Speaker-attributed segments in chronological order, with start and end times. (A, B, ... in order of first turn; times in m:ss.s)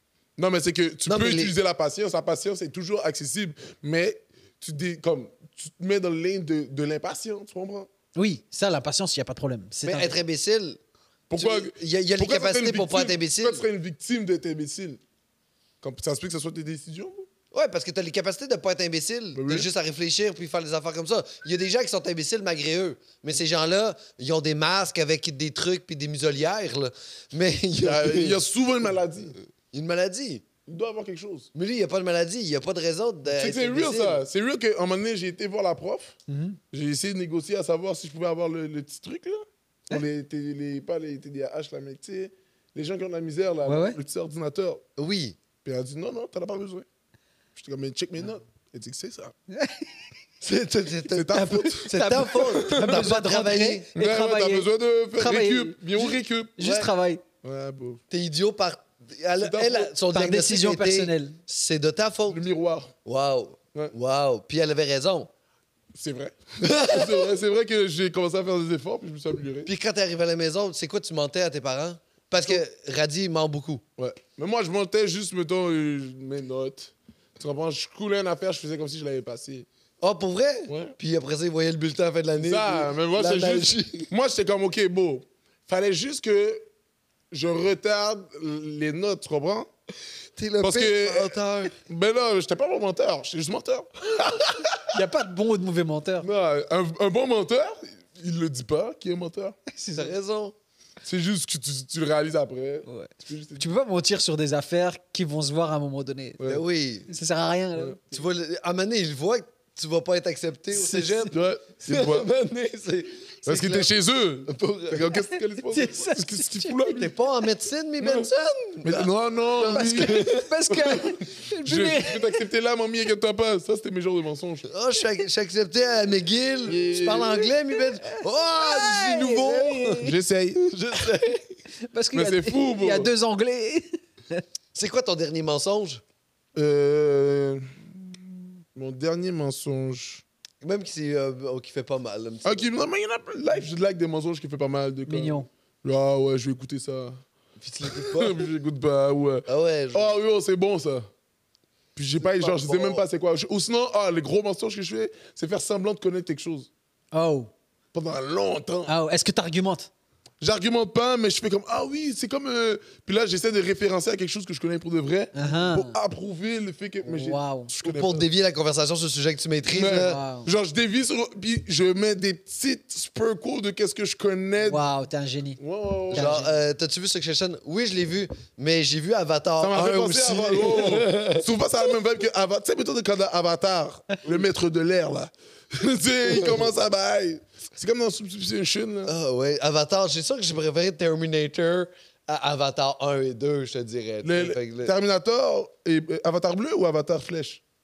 0:00.4-0:07.9 A
0:01.0-0:01.5 B
0:08.1-0:10.2 C
0:09.8-0:10.8 B
0:11.3-0:15.0 A
0:11.3-0:13.6 B
0:15.8-0:17.2 A
0:17.5-0:28.4 B
0:19.3-0:19.7 A
0:27.8-0:29.4 A
0:29.7-0:30.4 B
0:30.6-0:31.5 A
0:31.5-0:34.2 B
0:33.3-0:36.1 A
0:36.3-0:36.6 C
0:36.7-0:44.8 A
0:43.6-0:44.0 C
0:45.0-0:45.4 B
0:45.6-0:46.8 A
0:47.6-0:49.3 A
0:49.5-0:49.9 C
0:50.4-0:53.8 B
0:51.1-0:53.1 A
0:51.9-0:57.2 C
0:53.9-0:56.6 A
0:56.6-0:56.9 B
0:57.4-0:58.0 A
0:58.1-1:02.4 B
0:59.4-0:59.9 A
1:00.1-1:01.4 C
1:02.3-1:02.9 A
1:03.0-1:05.3 B
1:05.9-1:09.7 A
1:06.6-1:07.2 B
1:09.6-1:13.8 B
1:14.0-1:19.7 A
1:20.0-1:24.1 B
1:20.7-1:20.9 A
1:22.4-1:26.6 A
1:27.3-1:29.7 A
1:30.4-1:31.7 B
1:30.6-1:35.0 A
1:34.9-1:36.3 C
1:36.2-1:39.6 A
1:39.7-1:40.1 C
1:39.9-1:40.5 B
1:41.0-1:43.7 A
1:42.9-1:46.4 C
1:46.4-1:47.1 B
1:47.1-1:48.0 C
1:48.1-1:51.3 B
1:50.7-1:51.3 C
1:51.3-1:52.3 A
1:51.8-1:53.9 B
1:53.4-1:57.1 A
1:54.4-1:55.2 B
1:55.6-1:57.1 C
1:56.9-2:00.5 B
1:58.0-1:58.3 A
1:58.8-2:04.7 A
1:59.7-2:02.4 C
2:04.7-2:10.0 B
2:06.6-2:07.5 A
2:07.7-2:10.2 C
2:10.0-2:10.6 A
2:10.6-2:11.4 B
2:11.8-2:14.4 C
2:12.1-2:13.1 A
2:14.7-2:16.0 B
2:16.5-2:20.2 A
2:20.6-2:22.7 B
2:22.4-2:27.2 A
2:25.0-2:25.5 C
2:27.6-2:28.4 B
2:27.8-2:31.1 A
2:29.4-2:30.2 B
2:32.0-2:36.7 A
2:32.2-2:33.0 B
2:37.1-2:37.5 C
2:37.9-2:38.9 A
2:38.8-2:39.9 C
2:40.4-2:48.3 A
2:45.3-2:46.0 C
2:47.0-2:47.7 C
2:47.8-2:50.2 B
2:49.7-2:54.8 A
2:50.0-2:50.5 C
2:54.6-2:56.5 C
2:55.6-2:56.4 A
2:56.1-3:01.5 B
2:59.6-3:09.1 A
3:09.0-3:14.9 B
3:14.2-3:17.6 A